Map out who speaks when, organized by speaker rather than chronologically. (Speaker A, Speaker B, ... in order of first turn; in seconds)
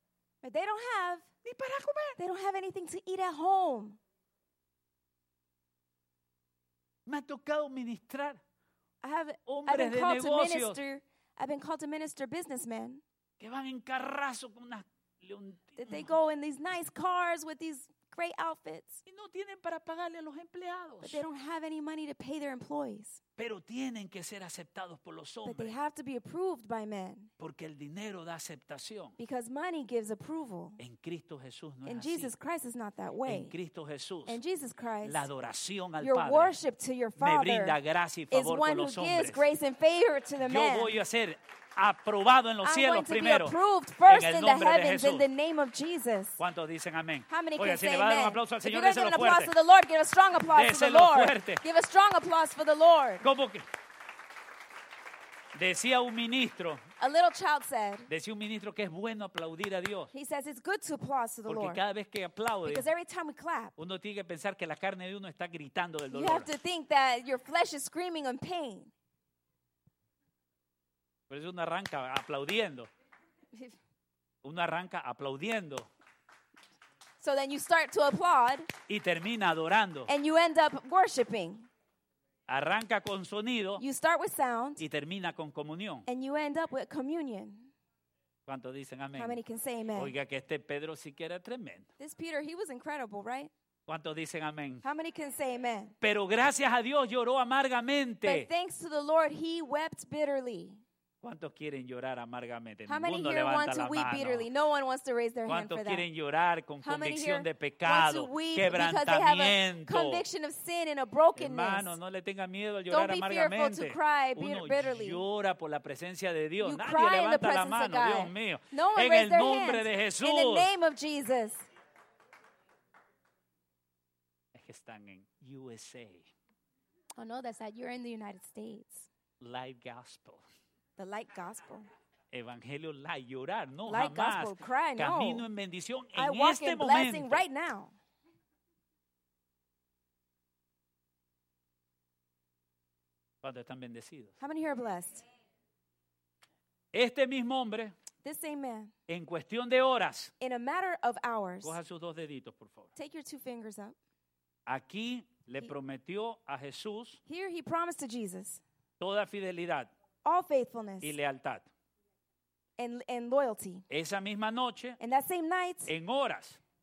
Speaker A: 0.4-1.3, 2.2-4.0, 9.0-13.0, 15.8-19.0, 21.0-23.2, 25.4-27.3, 29.2-30.8, 31.9-33.5, 34.3-35.3, 36.0-37.8, 38.3-41.0, 42.6-46.4, 47.3-53.3, 57.0-58.1, 60.1-61.8, 62.6-63.7, 66.1-68.9, 77.2-78.7, 80.1-81.7, 83.8-84.8, 86.1-87.7, 89.2-90.1, 92.0-93.5, 94.8-96.0, 98.2-100.8, 102.9-106.0, 106.8-112.0, 112.9-115.2, 116.6-121.7, 127.2-129.1, 131.0-131.9, 133.9-135.4, 136.1-137.9, 144.4-145.2, 148.2-148.9, 150.4-151.8, 152.9-153.9, 157.3-158.6, 160.2-161.1, 162.8-163.8, 165.0-165.9
Speaker B: 1.4-2.2, 7.1-8.4, 9.4-10.8, 13.4-16.1, 19.1-21.2, 23.4-25.8, 27.4-29.2, 30.8-32.3, 33.2-34.4, 35.0-36.6, 37.2-39.4, 40.4-45.3, 46.4-49.5, 50.5-51.6, 53.2-53.6, 55.5-56.8, 58.1-60.1, 61.5-62.9, 63.8-66.5, 71.3-72.9, 74.4-75.9, 78.9-80.1, 82.5-83.8, 84.8-86.1, 88.5-89.4, 90.0-91.9, 93.9-94.8, 96.0-98.5, 101.2-104.5, 105.5-110.2, 111.4-120.7, 124.5-126.3, 129.4-130.4, 132.3-137.4, 143.4-144.3, 146.9-147.9, 149.1-150.3, 151.6-152.9, 154.7-157.2, 159.0-159.9, 161.0-161.7, 163.9-165.0, 165.9-166.6